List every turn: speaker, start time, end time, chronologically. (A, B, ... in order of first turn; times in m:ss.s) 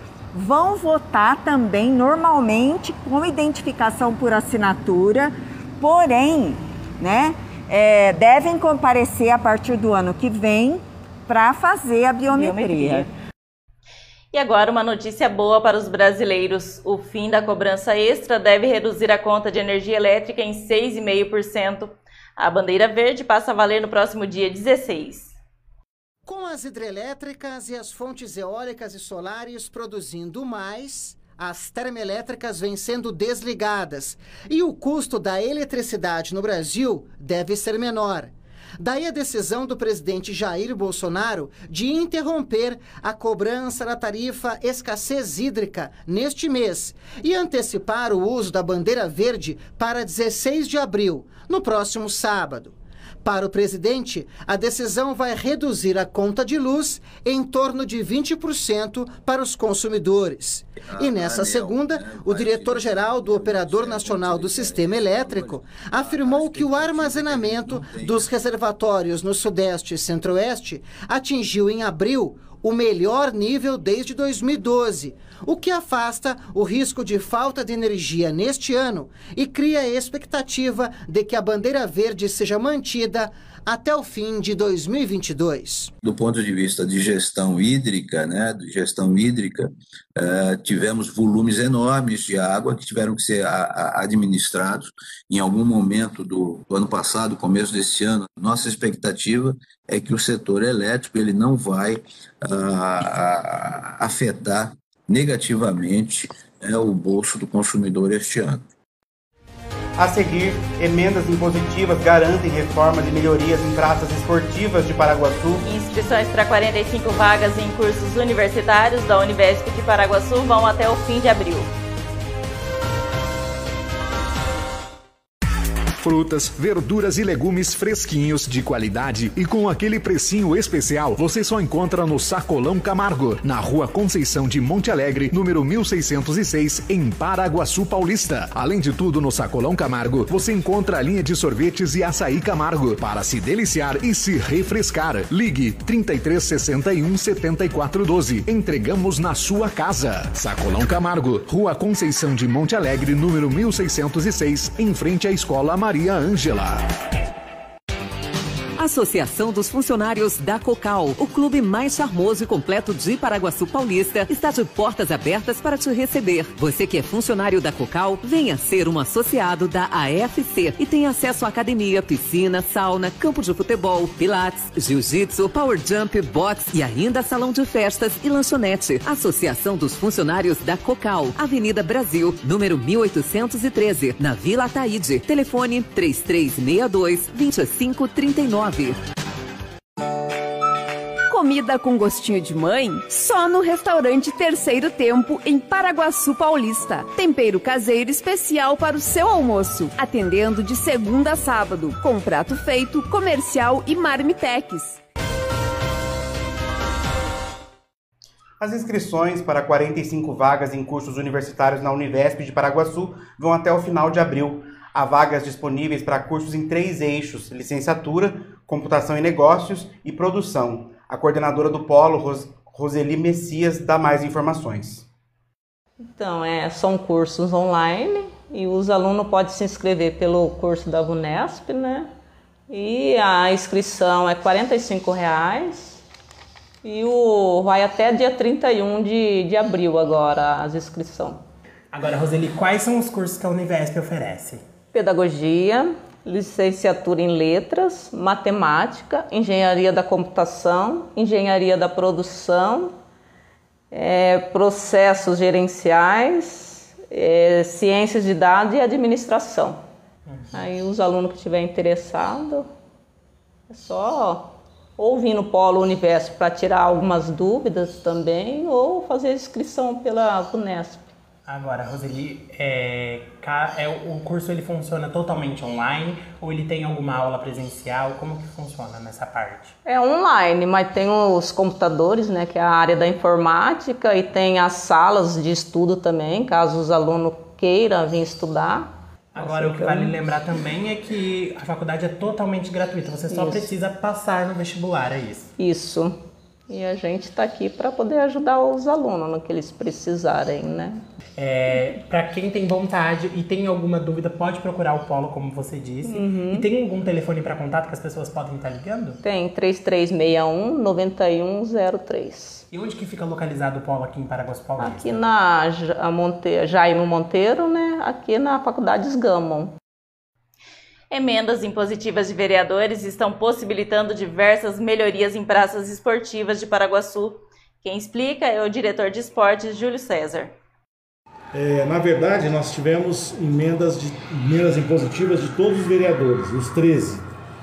0:00.3-0:13.1 A
0:14.3-0:25.3 B
0:26.2-0:52.7 C
0:53.2-1:25.9 C
1:01.2-1:08.2 D
1:26.0-1:29.7 D
1:30.2-1:48.6 D
1:50.0-1:55.6 E
1:55.6-2:01.7 B
2:06.0-2:36.8 F
2:38.8-3:09.0 G
3:11.3-3:25.0 H
3:28.6-3:45.0 E
3:34.0-3:34.4 D
3:46.1-3:52.1 I
3:52.7-3:56.0 I
3:56.8-4:01.4 I
4:01.9-4:04.6 J
4:04.9-4:12.9 I
4:13.9-4:19.8 I
4:20.3-4:20.5 J
4:20.5-4:22.7 I
4:23.7-4:31.1 I
4:31.5-4:39.7 J
4:39.8-4:50.2 I
4:49.3-4:55.5 J
4:53.3-4:53.7 I
4:55.6-4:56.2 I
4:56.7-5:01.0 I
5:01.4-5:09.2 J
5:06.0-5:06.7 I
5:09.2-5:12.6 I
5:12.7-5:15.1 J
5:14.8-5:19.7 I
5:21.1-5:30.5 B
5:31.5-5:37.3 K